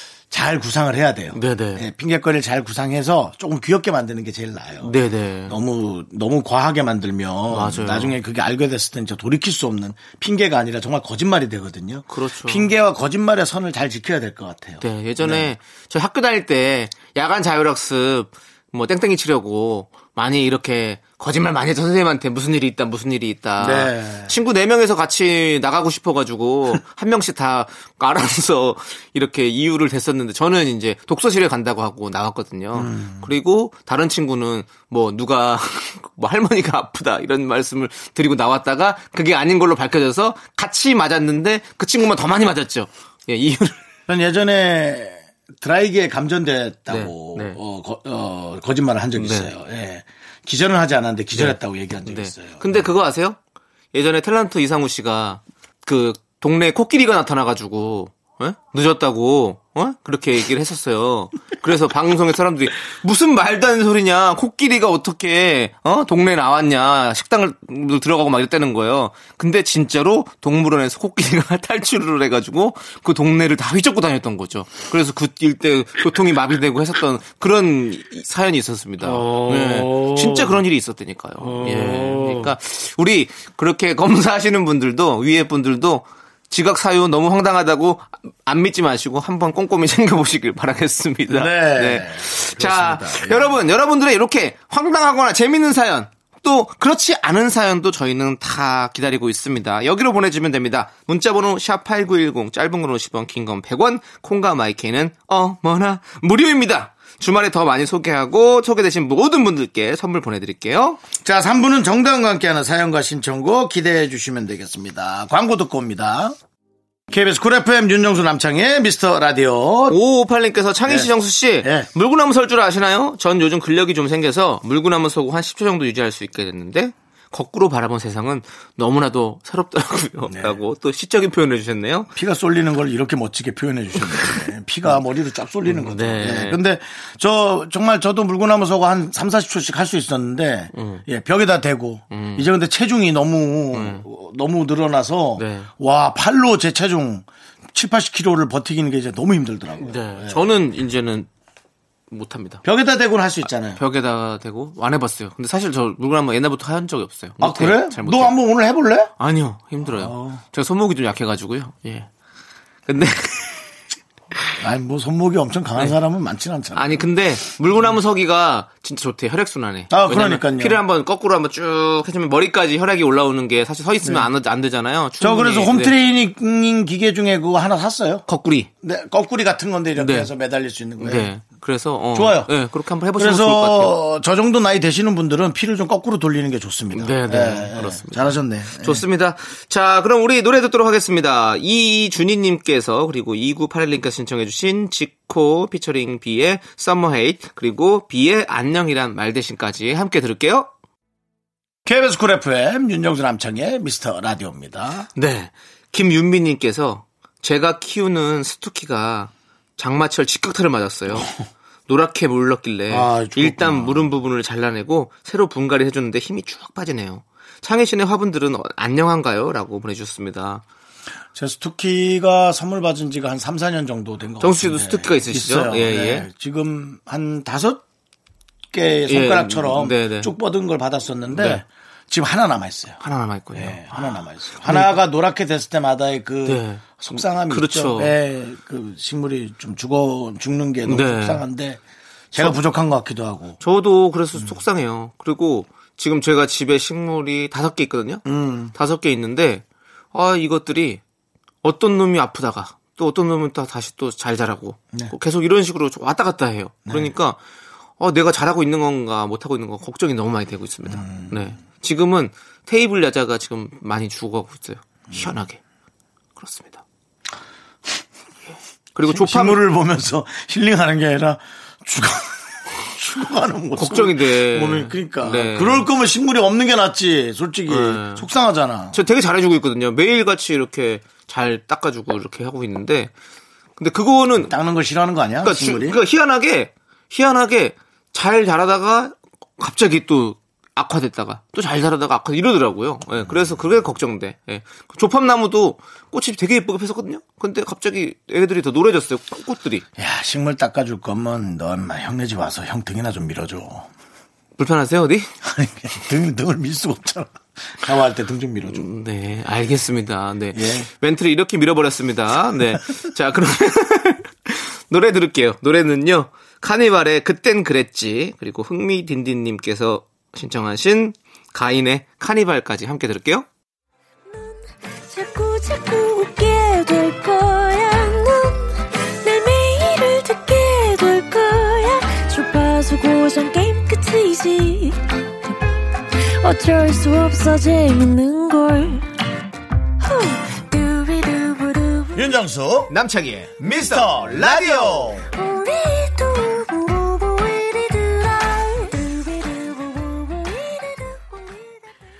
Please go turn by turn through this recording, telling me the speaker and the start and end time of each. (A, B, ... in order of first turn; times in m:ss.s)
0:00.3-0:04.9 A
0:01.3-0:01.8 B
0:04.8-0:05.6 B
0:05.5-0:15.5 A
0:07.5-0:08.2 B
0:12.1-0:12.7 B
0:14.8-0:43.8 B
0:23.6-0:24.3 A
0:32.7-0:33.3 A
0:44.1-0:52.8 A
0:46.9-0:47.6 B
0:49.2-0:49.5 B
0:51.3-0:53.4 B
0:53.9-1:51.0 B
1:19.0-1:20.6 A
1:21.4-1:22.5 A
1:31.3-1:33.6 A
1:51.2-1:56.4 A
1:57.1-2:00.0 A
1:59.9-2:12.1 B
2:01.6-2:01.9 A
2:10.2-2:10.6 A
2:12.1-2:30.4 A
2:15.7-2:16.6 B
2:20.7-2:21.0 B
2:22.1-2:22.5 B
2:23.7-2:24.0 B
2:25.4-2:25.7 B
2:29.8-2:31.3 B
2:32.1-2:32.6 B
2:32.6-2:33.8 A
2:33.8-2:38.3 B
2:37.4-2:39.1 A
2:39.2-2:42.1 B
2:39.8-2:40.4 A
2:42.9-2:43.6 B
2:44.6-2:47.0 A
2:46.7-2:55.9 B
2:49.9-2:50.8 A
2:55.2-2:58.2 A
2:58.3-2:58.7 B
2:58.8-3:01.3 A
3:00.0-3:00.3 B
3:01.0-3:04.0 B
3:02.1-3:02.5 A
3:03.2-3:09.0 A
3:06.9-3:20.7 B
3:21.8-3:25.1 A
3:25.2-3:31.3 B
3:31.9-3:40.6 B
3:32.9-3:34.1 A
3:41.3-3:47.8 A
3:44.4-3:46.2 B
3:48.7-3:53.0 A
3:49.1-3:50.3 B
3:51.3-3:51.6 B
3:53.0-3:55.0 B
3:53.5-4:01.8 A
3:56.4-3:56.8 B
3:57.5-3:58.1 B
4:00.8-4:01.4 B
4:02.3-4:03.6 A
4:03.6-4:11.0 B
4:08.2-4:08.7 A
4:11.6-4:17.4 B
4:16.9-4:17.1 A
4:18.0-4:25.6 B
4:20.8-4:21.4 A
4:26.4-4:26.8 B
4:28.9-4:29.6 B
4:29.1-4:39.0 A
4:33.8-4:35.9 B
4:37.7-4:38.2 B
4:38.9-4:43.1 B
4:43.8-4:44.5 B
4:44.4-4:46.0 A
4:45.4-4:59.8 B
5:00.0-5:03.9 A
5:04.6-5:05.3 B
5:05.4-5:08.9 A
5:08.7-5:23.4 B
5:10.5-5:10.9 A
5:24.3-5:35.0 C
5:36.4-5:39.0 C
5:40.0-5:42.2 C
5:42.1-5:42.9 A
5:42.9-5:45.2 B
5:43.6-5:45.2 A
5:45.4-5:51.4 C